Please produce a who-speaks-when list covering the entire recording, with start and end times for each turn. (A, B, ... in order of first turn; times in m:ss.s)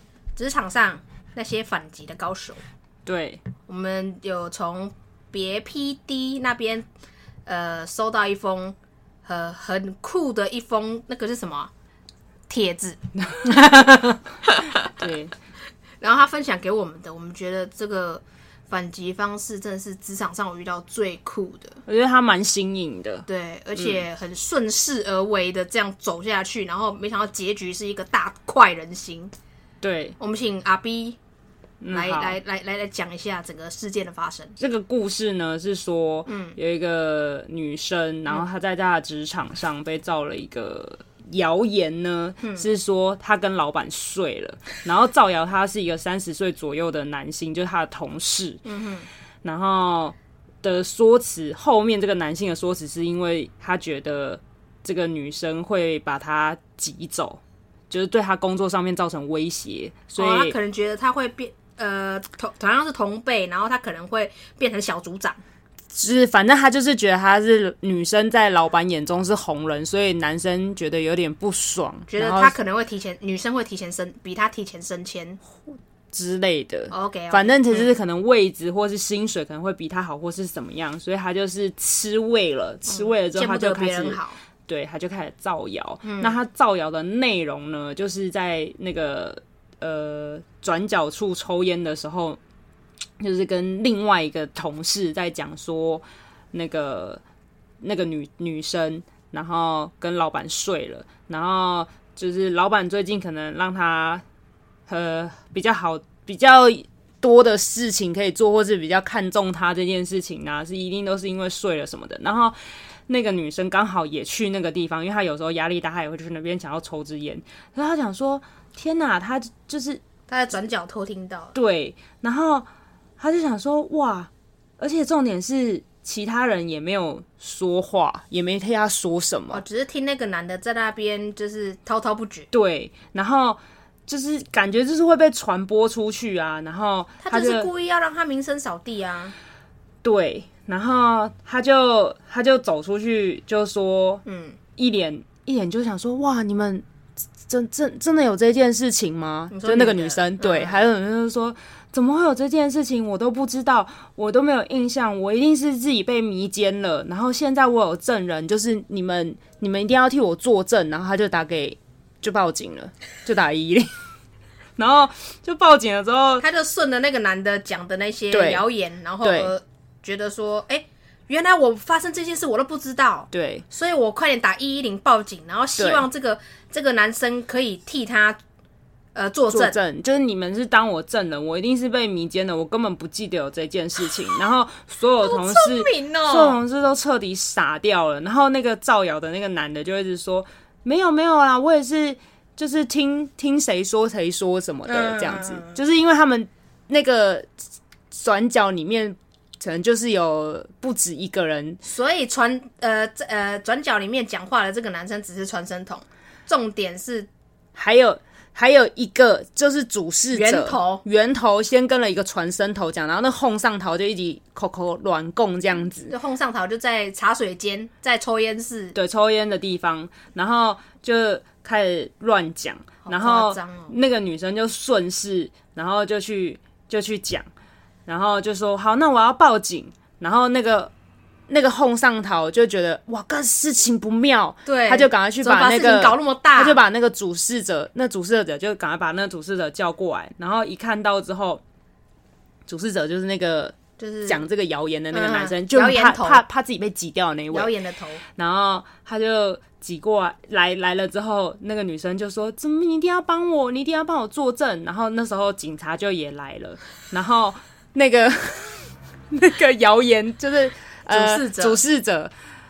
0:00.4-0:02.6 A
0:03.0-0:03.4 B
0:03.6-0:06.9 A
0:07.4-0:11.7 A
0:12.5-0:14.9 A
0:13.4-0:14.2 B
0:14.8-0:15.3 B
0:16.0-0:21.8 A
0:21.8-0:24.0 B
0:23.2-0:29.3 A
0:29.8-0:30.2 B
0:30.2-0:31.2 A
0:31.8-0:32.4 B
0:31.9-0:34.6 A
0:34.6-0:48.6 B
0:36.3-0:36.6 A
0:42.4-0:42.7 A
0:48.6-0:49.1 A
0:49.4-1:00.5 B
1:00.2-1:05.4 A
1:05.9-1:12.5 B
1:12.1-1:15.4 A
1:16.1-1:32.4 B
1:16.9-1:17.9 A
1:22.9-1:24.4 A
1:26.0-1:26.4 A
1:33.2-1:37.2 B
1:37.8-1:44.2 B
1:44.9-1:52.6 B
1:53.1-2:00.0 B
2:00.3-2:01.5 A
2:01.5-2:02.6 B
2:03.2-2:09.6 B
2:09.5-2:12.5 A
2:12.5-2:17.7 B
2:17.2-2:19.3 A
2:20.0-2:24.2 B
2:24.2-2:24.6 A
2:24.8-2:26.8 B
2:27.5-2:43.9 B
2:29.5-2:30.8 A
2:44.8-2:46.4 B
2:46.4-2:58.4 A
2:48.3-2:48.6 B
2:49.2-2:49.5 B
2:53.3-2:53.6 B
2:55.8-2:56.1 B
2:59.1-2:59.8 A
2:59.5-3:17.5 B
3:05.2-3:06.6 A
3:14.8-3:15.8 A
3:18.1-3:21.8 B
3:21.8-3:27.3 A
3:27.7-3:36.1 B
3:30.3-3:31.0 A
3:35.9-3:39.0 A
3:38.9-3:47.5 B
3:43.0-3:43.9 A
3:48.1-3:50.9 B
3:51.5-4:01.6 B
3:54.6-3:56.8 A
4:02.7-4:07.7 B
4:04.0-4:04.4 A
4:05.1-4:06.4 A
4:07.5-4:08.2 A
4:08.4-4:22.3 B
4:21.1-4:21.8 A